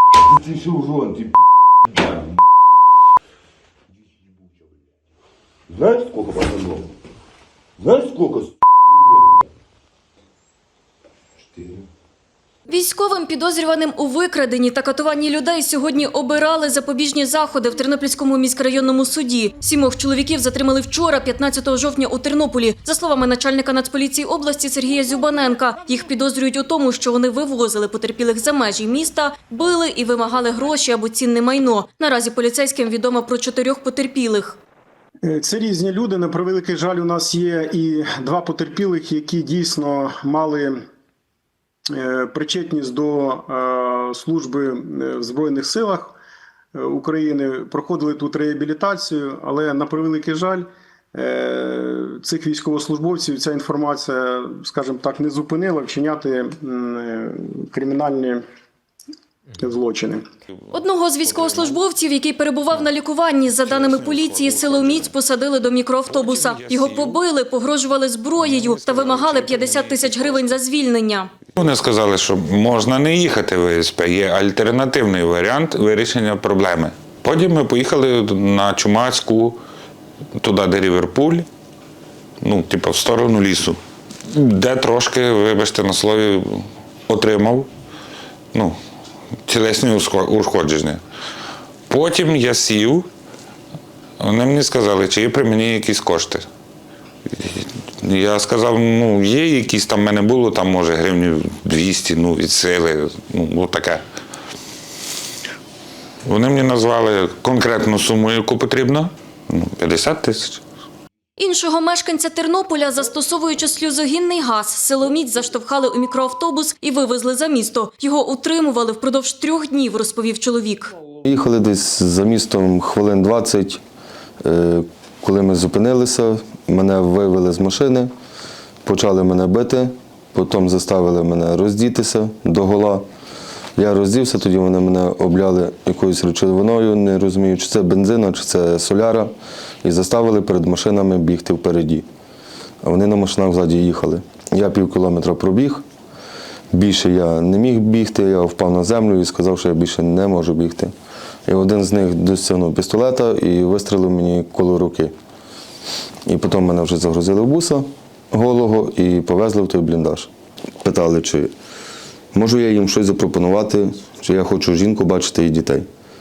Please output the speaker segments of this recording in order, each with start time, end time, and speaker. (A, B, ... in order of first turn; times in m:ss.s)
0:00.2-0:02.4 A
0:05.7-0:06.9 A
0:07.8-0:08.6 A
0:12.7-0:34.6 B
0:35.2-0:40.8 C
0:41.9-0:46.2 C
0:46.8-0:58.4 C
0:59.6-1:00.2 C
1:00.7-1:11.3 B
1:03.8-1:05.0 D
1:06.1-1:07.2 D
1:11.6-1:19.6 D
1:20.4-1:21.5 D
1:22.4-1:23.8 D
1:24.3-1:27.7 D
1:29.5-1:31.0 D
1:31.9-1:33.1 D
1:34.2-1:36.5 D
1:37.4-1:44.0 D
1:46.3-1:50.6 D
1:51.4-2:00.9 B
2:01.2-2:03.8 E
2:04.4-2:08.1 E
2:08.8-2:13.0 E
2:13.8-2:19.3 E
2:19.8-2:22.1 E
2:22.8-2:25.8 E
2:26.7-2:30.9 E
2:31.5-2:35.1 E
2:36.3-2:40.3 E
2:40.8-2:41.5 E
2:42.3-2:45.9 E